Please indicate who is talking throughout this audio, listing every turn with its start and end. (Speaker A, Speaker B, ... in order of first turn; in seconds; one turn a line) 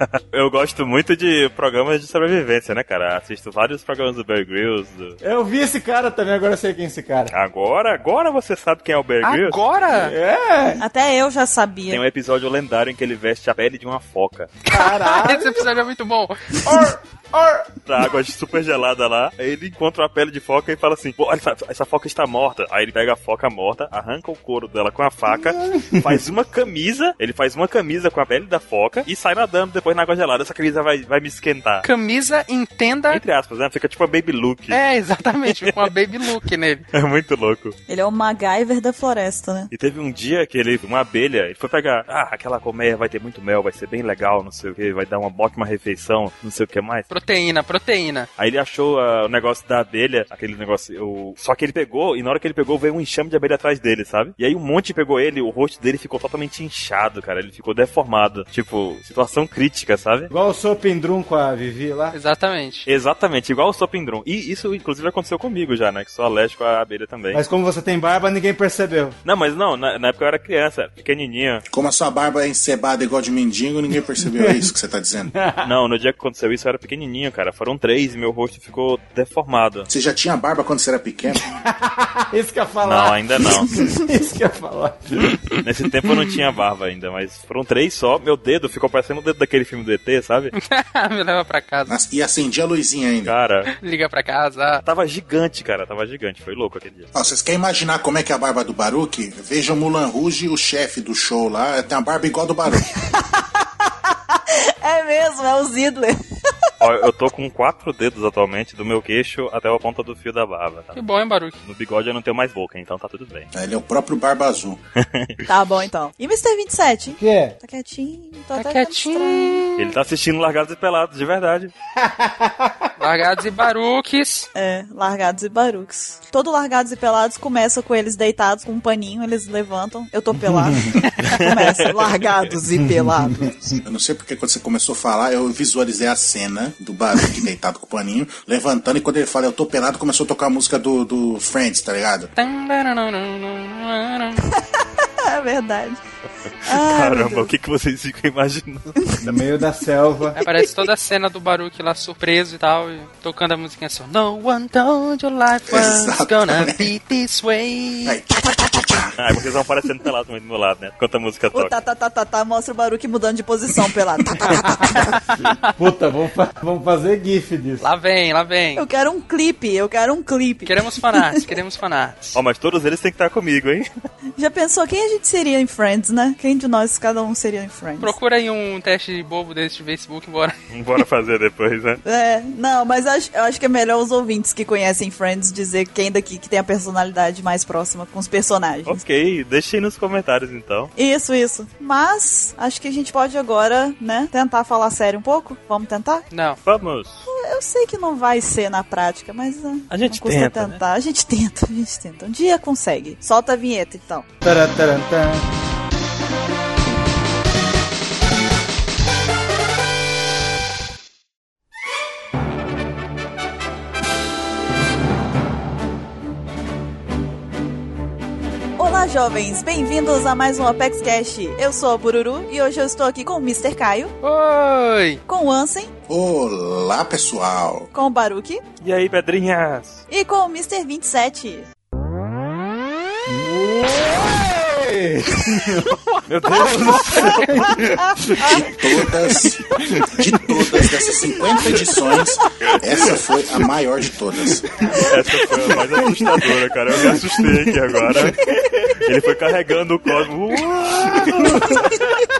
Speaker A: 0.3-5.2
Speaker B: 5.2-7.3
Speaker A: 7.3-9.9
Speaker C: 9.2-10.1
Speaker B: 9.9-10.8
Speaker D: 10.8-12.0
Speaker A: 11.9-14.6
Speaker B: 14.7-15.7
Speaker C: 14.8-16.7
Speaker B: 16.6-17.7
Speaker A: 17.8-31.9
Speaker B: 25.8-26.0
Speaker C: 31.8-33.2
Speaker A: 33.1-34.8
Speaker C: 34.7-36.8
Speaker A: 35.5-35.7
Speaker A: 36.9-37.8
Speaker D: 37.9-39.7
Speaker A: 39.7-47.1
Speaker C: 47.1-48.3
Speaker A: 48.4-60.3
Speaker B: 60.3-62.1
Speaker C: 62.1-62.9
Speaker A: 62.9-67.4
Speaker B: 67.3-69.1
Speaker A: 69.2-71.6
Speaker E: 71.7-75.3
Speaker B: 74.4-74.6
Speaker B: 75.4-75.6
Speaker A: 75.6-79.9
Speaker E: 79.9-81.5
Speaker B: 81.8-85.6
Speaker A: 82.8-83.8
Speaker A: 85.6-90.5
Speaker C: 90.5-92.0
Speaker E: 91.9-93.3
Speaker A: 93.2-93.7
Speaker C: 93.7-94.8
Speaker A: 94.8-97.1
Speaker E: 97.1-102.9
Speaker D: 104.3-106.2
Speaker A: 106.8-111.0
Speaker C: 110.9-111.6
Speaker A: 111.6-113.5
Speaker E: 113.5-114.8
Speaker A: 115.0-115.3
Speaker D: 115.5-119.7
Speaker B: 117.2-117.5
Speaker C: 118.5-119.9
Speaker A: 119.8-121.7
Speaker B: 122.0-122.8
Speaker C: 123.0-124.5
Speaker D: 124.5-133.4
Speaker B: 130.5-130.9
Speaker C: 131.1-131.4
Speaker A: 131.4-132.0
Speaker B: 133.0-133.5
Speaker E: 133.8-142.3
Speaker C: 142.3-144.4
Speaker D: 144.6-146.0
Speaker D: 146.6-147.5
Speaker A: 146.7-149.0
Speaker B: 149.2-150.4
Speaker C: 150.3-158.2
Speaker E: 155.7-156.9
Speaker E: 158.0-159.1
Speaker A: 159.2-161.7
Speaker D: 161.5-164.6
Speaker B: 164.4-167.9
Speaker C: 165.3-165.8
Speaker C: 167.8-168.8
Speaker D: 168.7-171.4
Speaker C: 170.7-172.4
Speaker A: 172.3-173.9
Speaker D: 174.4-178.1
Speaker C: 178.0-180.5
Speaker A: 180.7-182.0
Speaker D: 182.0-189.0
Speaker A: 188.9-190.9
Speaker D: 190.9-196.2
Speaker C: 196.3-196.6
Speaker A: 196.6-197.2
Speaker D: 197.3-204.2
Speaker A: 199.9-200.8
Speaker B: 204.4-205.4
Speaker D: 218.8-224.1
Speaker C: 224.2-225.2
Speaker D: 225.3-225.9
Speaker E: 226.1-227.9
Speaker D: 227.9-228.6
Speaker A: 228.8-230.0
Speaker D: 230.1-231.7
Speaker B: 233.3-238.6
Speaker A: 236.3-237.9
Speaker E: 238.3-244.7
Speaker A: 245.0-248.4
Speaker B: 245.6-246.4
Speaker B: 248.5-248.9
Speaker A: 249.0-251.6
Speaker B: 250.9-251.8
Speaker C: 251.4-251.7